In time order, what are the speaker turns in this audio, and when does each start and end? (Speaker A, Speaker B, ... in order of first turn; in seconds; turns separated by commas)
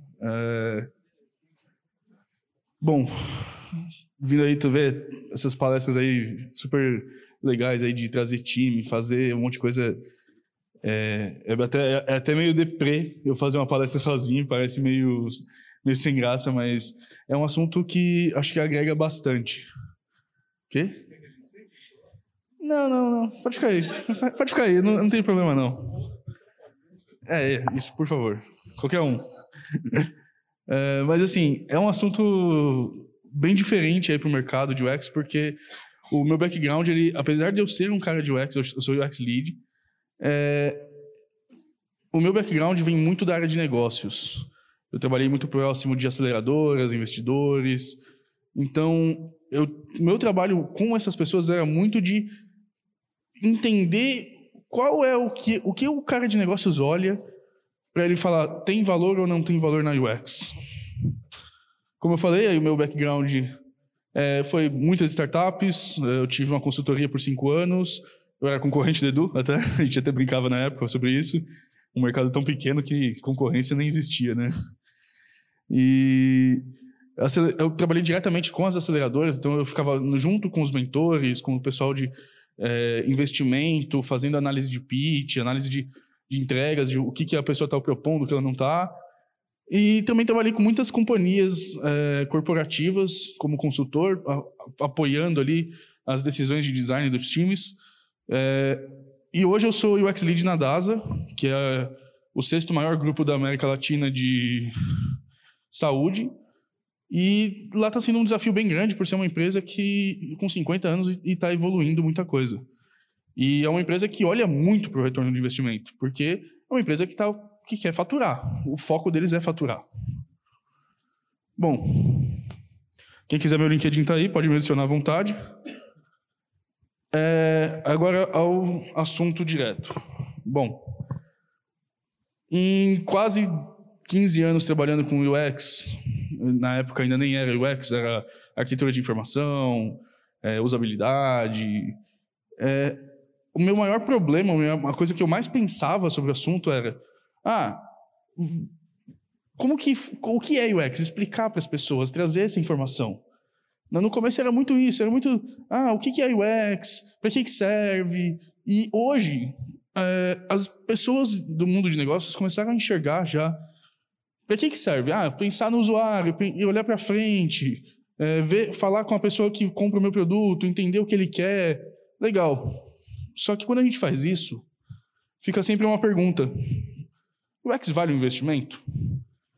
Speaker A: 0.2-0.9, Speaker A: 2.8-10.0, Speaker A: 10.8-19.7, Speaker A: 20.7-21.1, Speaker A: 22.6-26.0, Speaker A: 27.2-30.1, Speaker A: 30.7-35.6, Speaker A: 36.1-39.6, Speaker A: 40.2-40.9, Speaker A: 42.1-48.0, Speaker A: 48.5-52.3, Speaker A: 53.4-57.2, Speaker A: 57.9-60.5, Speaker A: 62.0-63.5, Speaker A: 64.1-74.5, Speaker A: 75.7-76.7, Speaker A: 77.2-88.9, Speaker A: 89.7-97.8, Speaker A: 98.3-104.7, Speaker A: 105.7-106.3, Speaker A: 107.1-112.6, Speaker A: 113.3-119.9, Speaker A: 121.6-122.4, Speaker A: 123.3-125.4, Speaker A: 127.1-130.8, Speaker A: 132.5-141.9, Speaker A: 142.6-148.7, Speaker A: 149.6-153.2, Speaker A: 153.9-163.6, Speaker A: 164.5-174.7, Speaker A: 175.4-176.8, Speaker A: 177.6-179.1